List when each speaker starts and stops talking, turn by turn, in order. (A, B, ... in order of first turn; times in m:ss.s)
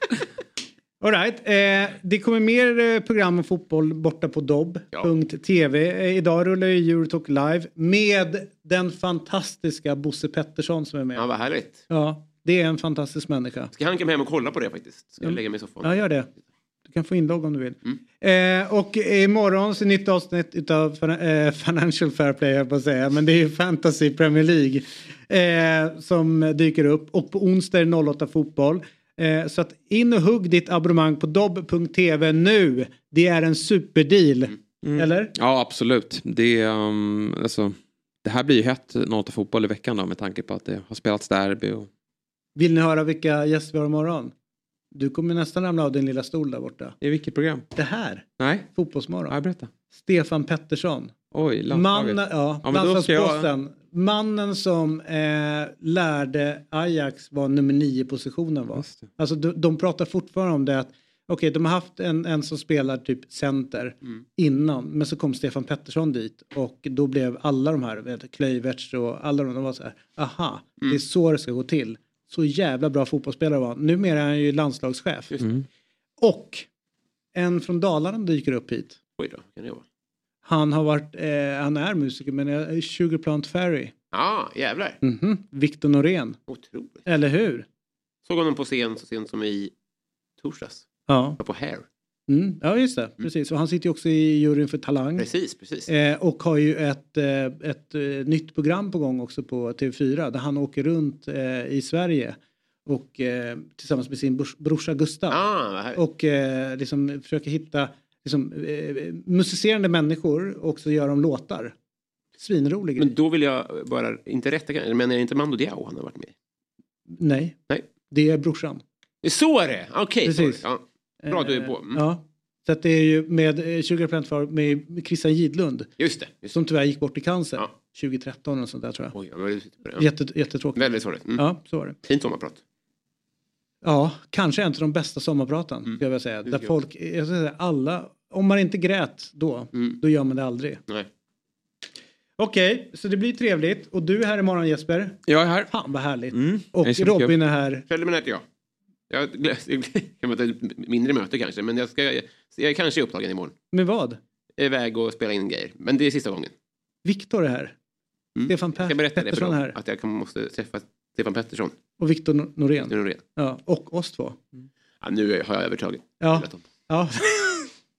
0:01.0-0:11.3 A
0:11.2-0:11.8 B
0:11.9-0:13.7 A
0:13.7-0:16.0 B
0:15.2-0:16.3 A
0:16.9-0:35.3 A
0:34.8-0:41.9 C
0:42.6-0:44.3 A
0:44.9-0:47.0 A
0:47.0-0:47.7 C
0:47.8-0:49.3 A
0:48.4-0:48.7 C
0:49.3-0:49.7 C
0:49.9-0:51.1 A
0:51.3-0:53.5 C
0:51.7-1:15.3 A
0:58.8-0:59.1 C
1:15.3-1:15.6 B
1:16.2-1:16.7 A
1:17.4-1:19.0 A
1:19.2-1:19.8 B
1:20.4-1:23.9 A
1:24.1-1:25.0 B
1:25.0-1:26.4 A
1:26.5-1:27.1 B
1:27.1-1:27.6 A
1:28.3-1:29.7 B
1:30.4-1:30.8 B
1:31.1-1:31.4 A
1:31.4-1:31.8 B
1:32.3-1:35.3 A
1:35.2-1:35.9 B
1:35.9-1:51.7 A
1:45.3-1:46.0 B
1:52.4-1:53.1 A
1:53.0-1:56.3 B
1:57.2-1:58.8 A
1:59.2-2:02.1 B
2:00.2-2:00.6 A
2:01.2-2:05.9 A
2:06.0-2:06.6 B
2:06.5-2:09.2 A
2:09.1-2:10.1 B
2:10.0-2:12.0 A
2:10.8-2:11.4 B
2:12.1-2:12.6 B
2:13.8-2:20.8 A
2:15.9-2:16.7 B
2:22.4-2:27.8 A
2:25.3-2:25.7 C
2:26.3-2:27.3 C
2:27.9-2:28.4 B
2:29.1-2:33.6 B
2:33.7-2:34.2 A
2:34.6-2:36.5 B
2:37.0-2:37.7 A
2:38.4-2:41.8 B
2:38.5-2:39.8 A
2:42.0-2:44.4 A
2:42.8-2:43.2 B
2:45.0-2:46.6 B
2:46.2-2:47.7 A